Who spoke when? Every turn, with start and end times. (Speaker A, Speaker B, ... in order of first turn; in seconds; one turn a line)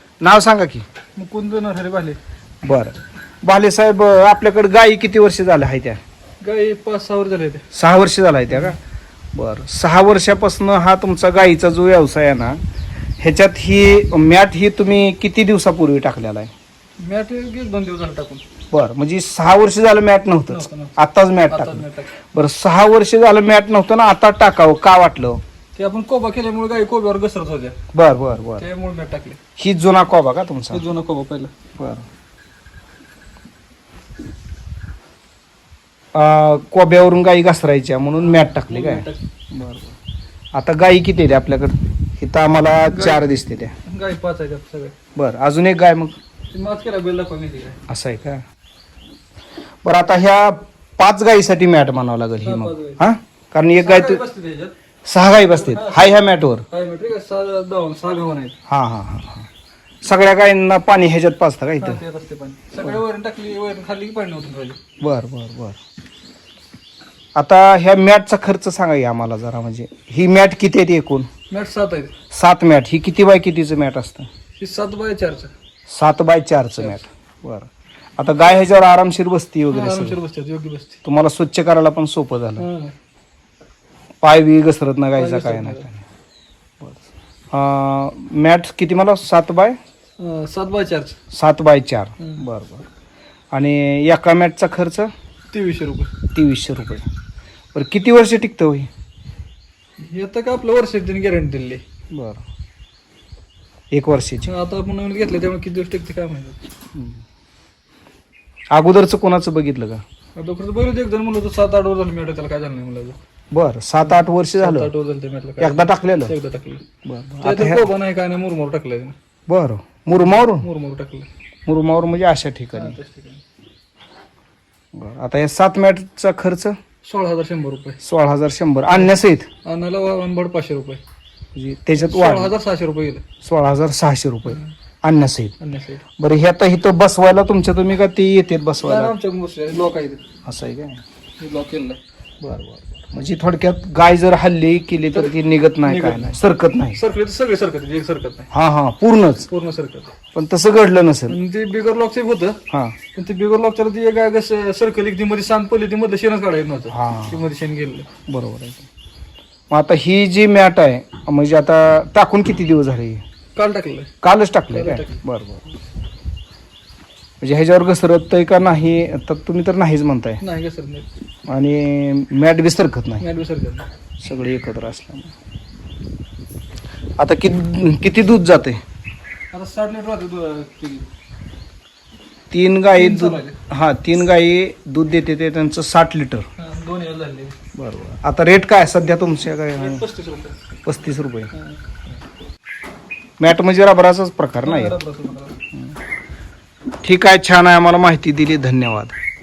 Speaker A: 0.2-0.8
Speaker B: 1.2-2.2
Speaker A: 2.6-6.0
Speaker B: 6.4-7.6
Speaker A: 7.7-8.8
Speaker A: 9.3-12.6
Speaker A: 13.2-16.5
Speaker B: 17.0-18.4
Speaker A: 18.7-21.8
Speaker B: 20.5-21.0
Speaker B: 21.5-22.1
Speaker A: 22.3-25.4
Speaker B: 25.8-27.8
Speaker A: 27.9-28.7
Speaker B: 28.6-29.4
Speaker A: 29.6-30.8
Speaker B: 30.7-31.5
Speaker A: 31.8-32.0
Speaker A: 36.1-40.0
Speaker B: 38.2-39.3
Speaker A: 40.5-43.7
Speaker B: 42.9-43.3
Speaker B: 43.9-45.0
Speaker A: 45.2-46.2
Speaker B: 46.5-47.8
Speaker A: 47.9-48.4
Speaker A: 49.8-54.2
Speaker B: 52.4-53.0
Speaker B: 53.8-54.8
Speaker A: 55.1-56.6
Speaker B: 55.5-58.6
Speaker A: 58.7-59.5
Speaker A: 60.0-62.0
Speaker B: 61.8-64.8
Speaker A: 65.0-65.8
Speaker A: 67.4-71.3
Speaker B: 71.5-72.1
Speaker A: 72.3-74.3
Speaker B: 74.6-75.5
Speaker A: 75.9-80.2
Speaker B: 79.7-81.0
Speaker A: 81.0-82.7
Speaker B: 82.6-82.9
Speaker A: 84.2-86.0
Speaker B: 85.1-85.9
Speaker A: 87.5-89.8
Speaker B: 90.2-91.2
Speaker A: 91.3-92.9
Speaker A: 93.5-95.1
Speaker B: 95.5-96.1
Speaker A: 96.3-97.1
Speaker A: 97.7-98.9
Speaker B: 100.0-101.8
Speaker A: 102.1-102.4
Speaker A: 103.9-104.5
Speaker B: 104.5-106.6
Speaker A: 107.0-107.2
Speaker A: 108.7-110.0
Speaker B: 110.4-113.2
Speaker A: 113.5-114.9
Speaker B: 114.0-116.8
Speaker A: 115.6-116.3
Speaker A: 117.0-117.9
Speaker B: 117.4-119.2
Speaker A: 119.5-120.7
Speaker B: 120.3-121.3
Speaker A: 121.7-123.0
Speaker B: 122.7-123.4
Speaker A: 124.9-126.8
Speaker B: 127.0-128.0
Speaker A: 128.0-129.5
Speaker B: 129.6-131.0
Speaker A: 131.6-132.5
Speaker B: 132.0-133.2
Speaker A: 133.4-135.6
Speaker B: 134.5-134.7
Speaker B: 135.6-136.0
Speaker A: 136.2-139.2
Speaker B: 138.8-140.2
Speaker A: 140.4-141.0
Speaker B: 141.4-142.0
Speaker A: 142.5-147.0
Speaker B: 145.8-146.3
Speaker B: 146.9-148.5
Speaker A: 148.5-149.5
Speaker B: 149.5-150.2
Speaker A: 150.3-151.4
Speaker B: 151.3-152.6
Speaker A: 152.7-153.0
Speaker B: 153.2-158.1
Speaker A: 156.9-157.4
Speaker A: 158.3-158.9
Speaker A: 159.7-163.2
Speaker B: 163.6-164.1
Speaker A: 164.2-165.7
Speaker B: 164.7-165.2
Speaker A: 167.4-170.4
Speaker B: 170.4-171.1
Speaker A: 171.5-173.2
Speaker B: 173.2-173.9
Speaker A: 174.2-175.3
Speaker A: 177.2-178.8
Speaker B: 179.5-181.1
Speaker A: 182.5-186.5
Speaker B: 182.9-183.6
Speaker B: 186.6-187.6
Speaker A: 187.8-190.0
Speaker B: 189.8-190.6
Speaker A: 190.9-191.5
Speaker B: 191.5-191.8
Speaker A: 193.4-195.0
Speaker B: 194.6-195.6
Speaker A: 197.0-199.1